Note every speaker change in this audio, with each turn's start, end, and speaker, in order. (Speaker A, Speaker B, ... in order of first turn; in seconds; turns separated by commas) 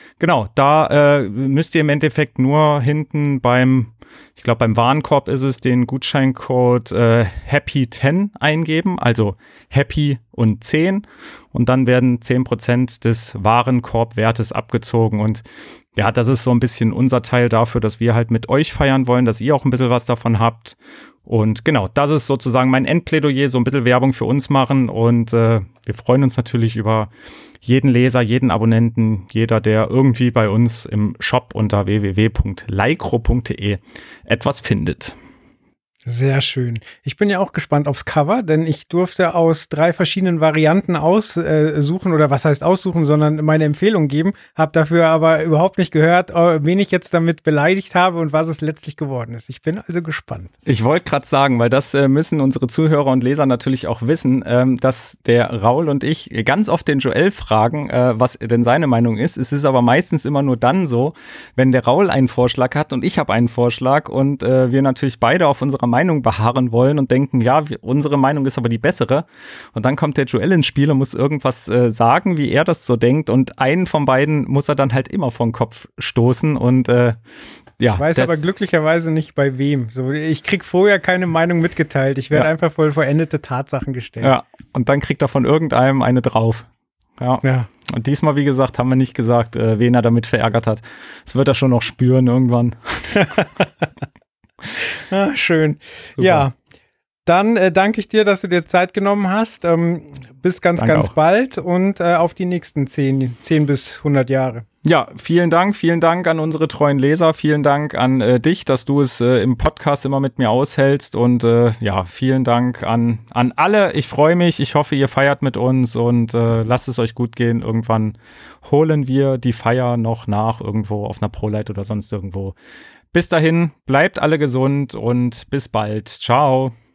Speaker A: 0.2-15.4, Speaker A: 15.9-27.1, Speaker A: 27.6-35.1, Speaker B: 36.1-50.5, Speaker A: 50.7-77.2, Speaker A: 77.8-78.4, Speaker B: 78.0-84.3, Speaker A: 84.2-93.3, Speaker B: 87.4-87.7, Speaker B: 93.2-93.6, Speaker B: 95.1-96.5, Speaker A: 96.2-96.5, Speaker B: 97.3-104.7, Speaker A: 100.8-101.1, Speaker A: 104.8-122.5, Speaker A: 123.1-126.7